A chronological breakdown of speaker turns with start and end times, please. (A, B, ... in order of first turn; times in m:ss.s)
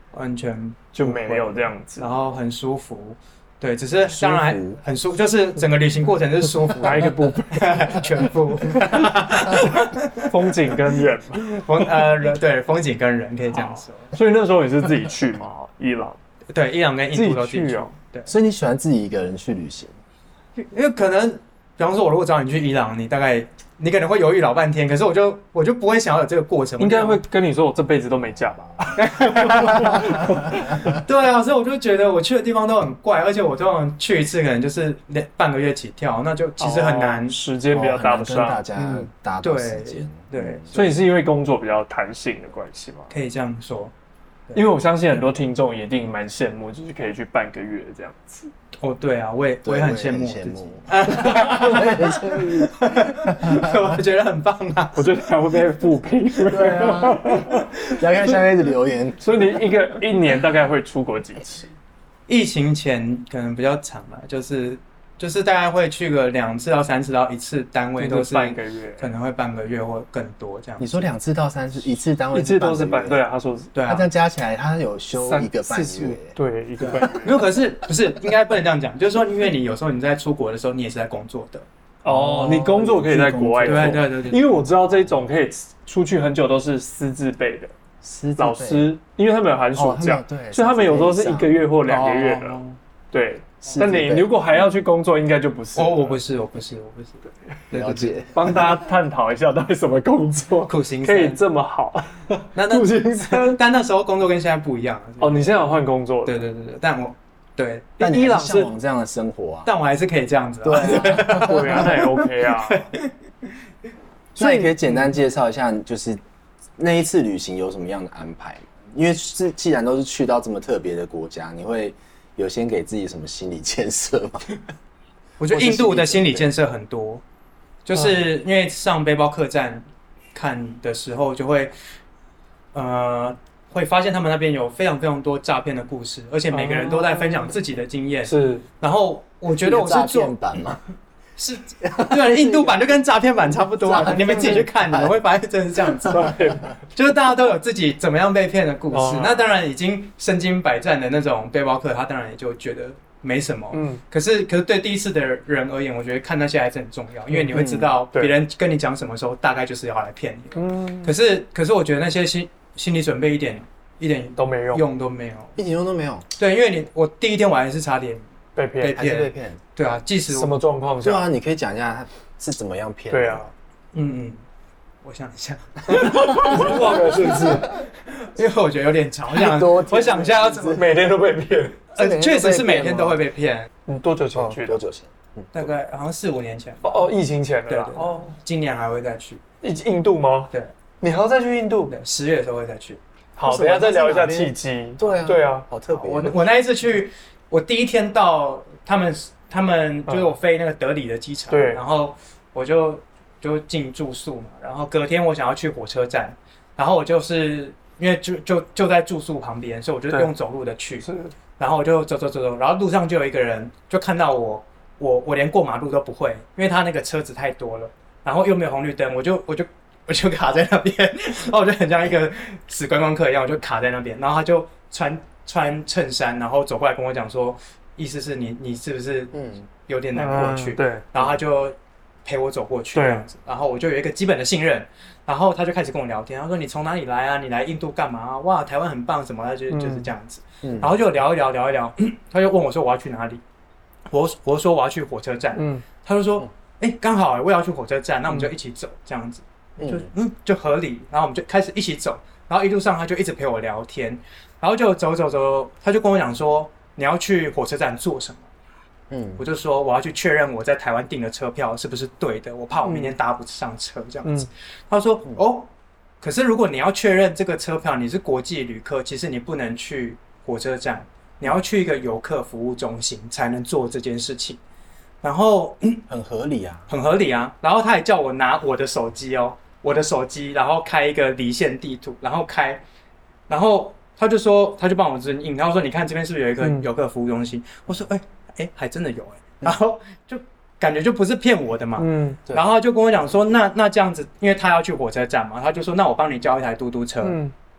0:00.1-0:10.3 A
0:00.9-0:02.1 B
0:04.0-0:04.8 C
0:06.8-0:08.3 B
0:08.8-0:11.9 B
0:11.5-0:14.1 A
0:13.5-0:16.2 B
0:16.5-0:18.3 A
0:17.1-0:17.9 B
0:18.3-0:19.9 C
0:20.6-0:27.2 A
0:26.8-0:31.0 B
0:29.0-0:37.4 A
0:29.7-0:30.9 C
0:36.6-0:38.6 B
0:37.7-0:40.7 C
0:38.8-0:41.0 A
0:40.7-0:43.1 B
0:43.1-0:43.9 A
0:44.5-0:48.5 B
0:48.8-0:55.1 A
0:49.6-0:53.8 C
0:55.0-0:57.7 B
0:56.5-0:59.3 C
0:59.2-1:01.7 B
1:02.3-1:11.1 A
1:08.0-1:09.1 B
1:10.8-1:13.2 C
1:12.3-1:13.7 B
1:13.8-1:14.1 A
1:13.9-1:16.4 C
1:15.2-1:17.5 B
1:16.8-1:21.7 A
1:22.0-1:27.7 B
1:22.1-1:24.0 C
1:23.6-1:24.6 A
1:28.0-1:28.9 C
1:28.4-1:32.6 B
1:29.8-1:32.2 C
1:31.9-1:32.8 A
1:33.1-1:36.2 B
1:33.7-1:34.4 C
1:35.8-1:38.2 A
1:37.7-1:43.6 B
1:37.7-1:38.6 C
1:40.6-1:41.4 A
1:42.6-1:45.7 A
1:45.2-1:46.5 B
1:46.2-1:48.0 A
1:48.0-1:48.7 B
1:48.0-1:49.7 C
1:49.7-1:53.1 A
1:50.6-1:52.0 C
1:51.1-1:52.9 B
1:54.4-1:56.2 C
1:54.4-1:55.0 A
1:56.8-2:04.4 C
2:05.4-2:07.2 A
2:05.5-2:06.4 C
2:07.9-2:11.7 A
2:12.7-2:20.3 A
2:16.5-2:17.5 B
2:18.3-2:18.6 B
2:19.6-2:20.8 C
2:21.4-2:26.4 A
2:21.8-2:22.9 C
2:23.8-2:25.1 C
2:26.0-2:26.7 B
2:26.9-2:45.6 A
2:28.9-2:29.5 B
2:33.7-2:34.0 B
2:37.5-2:38.0 C
2:40.6-2:41.1 B
2:44.4-2:44.8 B
2:45.6-2:46.2 C
2:46.4-2:48.2 A
2:48.6-2:49.1 B
2:48.8-2:50.5 A
2:48.9-2:49.6 C
2:50.3-2:51.3 B
2:51.0-2:53.5 C
2:53.1-2:53.5 B
2:53.9-2:54.4 A
2:55.0-3:00.8 A
2:56.0-2:57.7 B
2:56.5-2:57.6 C
2:59.3-3:00.9 C
3:00.8-3:01.8 B
3:02.0-3:03.7 A
3:02.0-3:03.2 C
3:03.9-3:04.8 B
3:04.3-3:05.7 C
3:05.5-3:07.0 A
3:06.8-3:08.3 B
3:07.7-3:09.4 A
3:09.6-3:11.9 B
3:11.9-3:13.0 A
3:13.4-3:15.7 B
3:13.4-3:16.4 C
3:15.9-3:31.1 A
3:21.5-3:21.8 B
3:31.0-3:31.3 B
3:31.6-4:03.4 A
3:49.3-3:49.6 C
3:50.2-3:51.0 B
3:52.9-3:53.2 B
3:59.7-4:00.1 B
4:00.6-4:00.9 C
4:04.1-4:18.5 A
4:05.6-4:05.8 B
4:09.8-4:10.1 C
4:19.1-4:19.4 C
4:19.4-4:34.6 A
4:22.9-4:23.2 B
4:35.2-4:36.0 A
4:36.1-4:36.9 C
4:36.9-4:42.8 A
4:43.5-4:57.4 A
4:52.0-4:52.4 B
4:57.2-4:57.5 B